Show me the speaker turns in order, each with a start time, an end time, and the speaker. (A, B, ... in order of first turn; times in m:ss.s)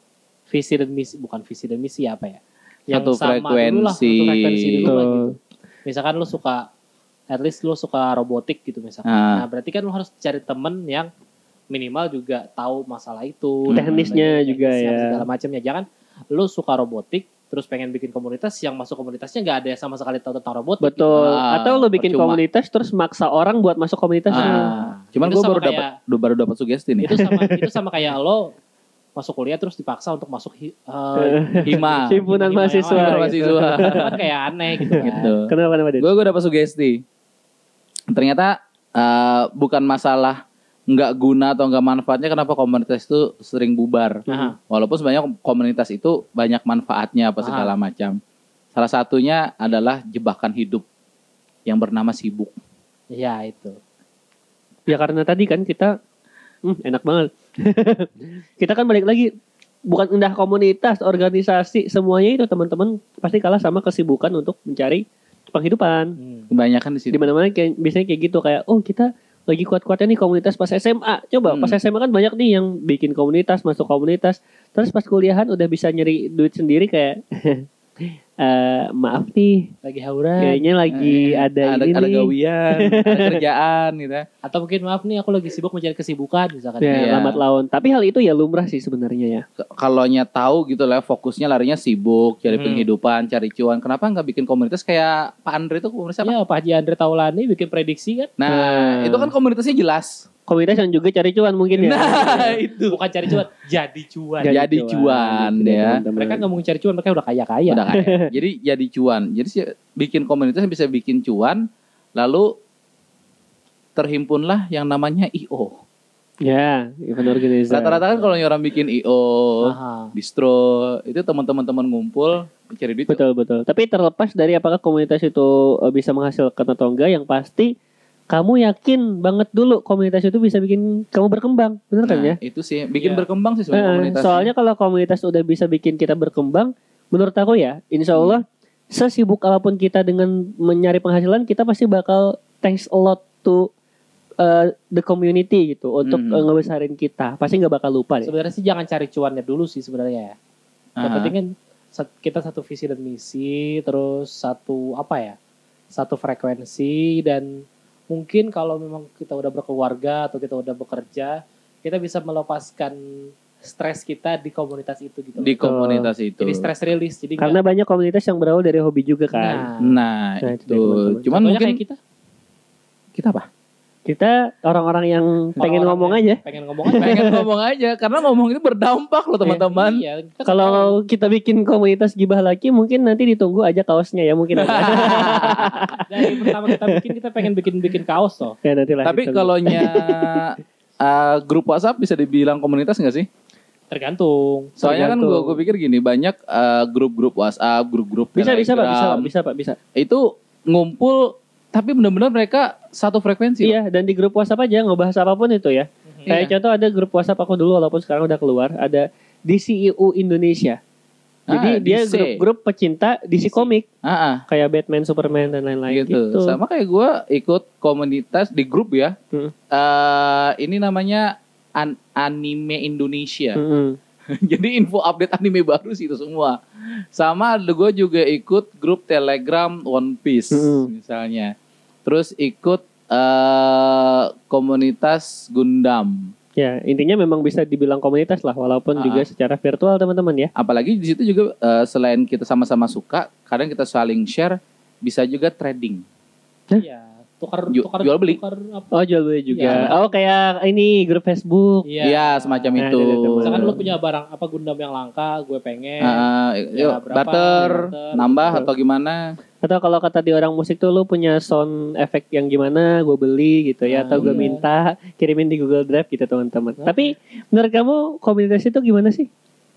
0:00.5-0:06.7 A
0:02.9-0:05.0 B
0:04.8-0:05.3 C
0:07.3-0:11.1 A
0:09.0-0:09.4 B
0:11.7-0:21.3 A
0:13.7-0:14.2 B
0:13.7-0:15.2 C
0:20.8-0:24.7 C
0:21.2-0:22.4 B
0:24.3-0:27.1 B
0:24.3-0:25.9 A
0:27.0-0:28.5 A
0:27.1-0:27.6 C
0:29.1-0:35.3 A
0:31.2-0:34.1 C
0:31.6-0:32.2 B
0:32.9-0:34.1 B
0:34.9-0:36.1 C
0:35.0-0:35.5 B
0:36.0-0:37.0 B
0:38.1-0:44.2 B
0:44.3-0:44.5 C
0:44.3-0:44.5 A
0:44.7-0:48.2 B
0:47.4-0:47.7 A
0:48.7-0:50.8 B
0:51.7-0:52.5 B
0:53.1-0:53.8 A
0:54.9-0:55.9 C
0:56.7-0:58.1 C
0:58.6-0:59.3 C
0:59.9-1:06.1 C
1:06.2-1:06.5 A
1:06.5-1:07.3 B
1:07.1-1:17.6 C
1:11.5-1:11.8 B
1:18.4-1:19.7 C
1:19.8-1:21.0 A
1:20.4-1:22.3 C
1:20.9-1:24.2 B
1:22.8-1:23.4 C
1:24.4-1:27.1 A
1:26.8-1:29.4 C
1:26.9-1:27.4 B
1:29.8-1:36.3 B
1:32.5-1:32.8 A
1:36.2-1:38.3 A
1:38.4-1:40.2 B
1:38.5-1:39.3 C
1:40.5-1:42.5 C
1:41.7-1:43.3 B
1:42.1-1:44.6 A
1:44.4-1:46.4 C
1:44.5-1:46.0 B
1:46.2-1:47.8 A
1:47.7-1:51.6 B
1:52.2-1:52.5 B
1:54.0-1:55.7 B
1:56.4-1:58.0 C
1:57.2-2:03.2 B
1:59.6-2:00.1 A
2:03.1-2:07.7 C
2:08.3-2:12.4 C
2:12.0-2:14.5 B
2:13.0-2:13.3 A
2:13.7-2:23.7 C
2:18.1-2:18.4 B
2:24.4-2:28.3 C
2:26.0-2:26.4 B
2:28.2-2:30.3 A
2:31.0-2:31.3 B
2:31.0-2:35.4 A
2:35.9-2:37.5 A
2:38.1-2:45.6 A
2:45.4-2:46.7 B
2:45.6-2:46.1 C
2:46.4-2:47.6 A
2:47.4-2:49.7 C
2:49.3-2:50.0 A
2:49.8-2:51.8 B
2:50.4-2:51.3 C
2:51.3-2:52.0 A
2:53.1-2:53.4 B
2:54.1-2:56.4 C
2:55.6-2:57.3 A
2:56.9-2:57.4 C
2:57.0-3:00.0 B
2:59.7-3:01.0 A
3:00.4-3:07.0 C
3:04.5-3:05.9 B
3:06.0-3:08.6 A
3:08.6-3:10.5 C
3:09.0-3:13.3 B
3:13.9-3:14.8 A
3:14.8-3:19.3 B
3:14.8-3:15.6 C
3:18.4-3:19.8 C
3:20.0-3:23.8 B
3:23.6-3:30.8 C
3:26.1-3:26.4 A
3:26.2-3:26.5 B
3:31.5-3:32.4 B
3:31.5-3:33.8 C
3:33.5-3:34.4 B
3:34.5-3:36.6 C
3:35.9-3:39.1 B
3:39.7-3:43.6 B
3:43.6-3:44.0 C
3:44.4-3:46.6 B
3:47.1-3:51.5 B
3:50.5-3:50.9 C
3:52.0-3:56.3 B
3:56.6-4:00.5 C
3:59.0-3:59.3 B
4:00.6-4:06.0 B
4:06.8-4:09.0 A
4:07.7-4:08.4 B
4:08.9-4:11.8 C
4:09.5-4:10.1 A
4:09.6-4:09.9 B
4:11.8-4:12.8 A
4:12.0-4:13.8 B
4:12.8-4:13.8 C
4:13.4-4:18.6 A
4:16.0-4:19.2 B
4:19.6-4:29.3 C
4:23.8-4:24.6 A
4:24.1-4:24.5 B
4:26.8-4:27.1 A